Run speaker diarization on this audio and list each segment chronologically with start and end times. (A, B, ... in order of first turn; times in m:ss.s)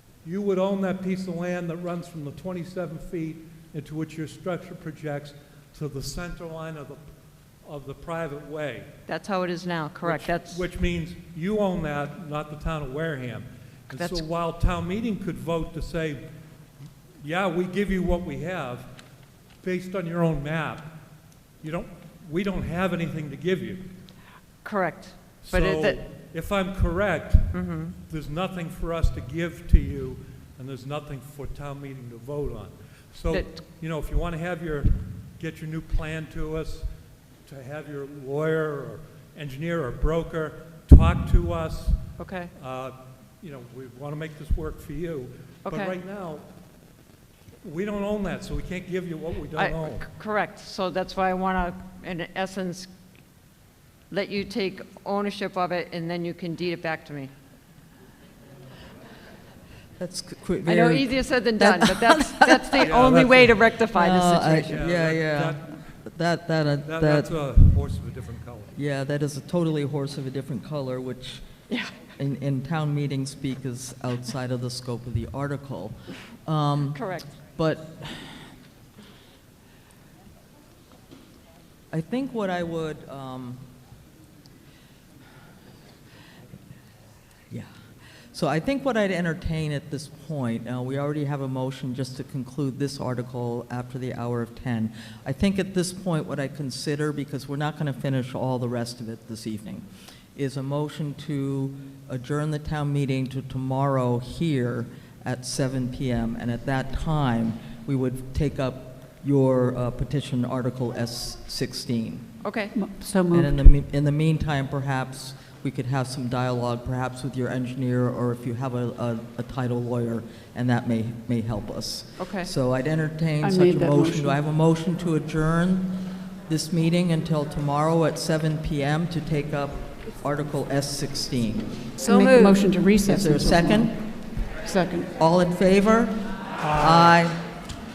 0:00.2-0:07.1 A
0:07.6-0:08.9 A
0:09.1-0:10.6 B
0:10.0-0:16.2 A
0:13.9-0:14.2 B
0:17.2-0:18.9 A
0:19.6-0:20.9 A
0:21.6-0:23.9 A
0:24.6-0:26.0 B
0:25.4-0:36.9 A
0:27.5-0:28.0 B
0:33.3-0:33.6 B
0:37.4-0:46.5 A
0:42.2-0:42.5 B
0:45.6-0:46.0 B
0:47.6-0:50.1 A
0:49.5-0:52.9 B
0:54.1-0:57.3 B
1:00.0-1:02.9 C
1:00.6-1:04.8 B
1:02.8-1:03.8 A
1:03.9-1:07.3 C
1:04.5-1:05.9 A
1:06.8-1:08.8 A
1:08.7-1:18.4 C
1:16.9-1:17.3 B
1:21.9-1:23.6 C
1:28.3-1:52.4 C
1:52.4-1:52.7 B
1:52.7-1:53.6 D
1:53.1-2:11.8 C
2:02.2-2:02.5 B
2:03.4-2:04.3 D
2:12.0-2:15.1 D
2:12.0-2:12.8 B
2:13.0-2:14.0 C
2:15.2-2:17.4 C
2:16.6-2:17.2 A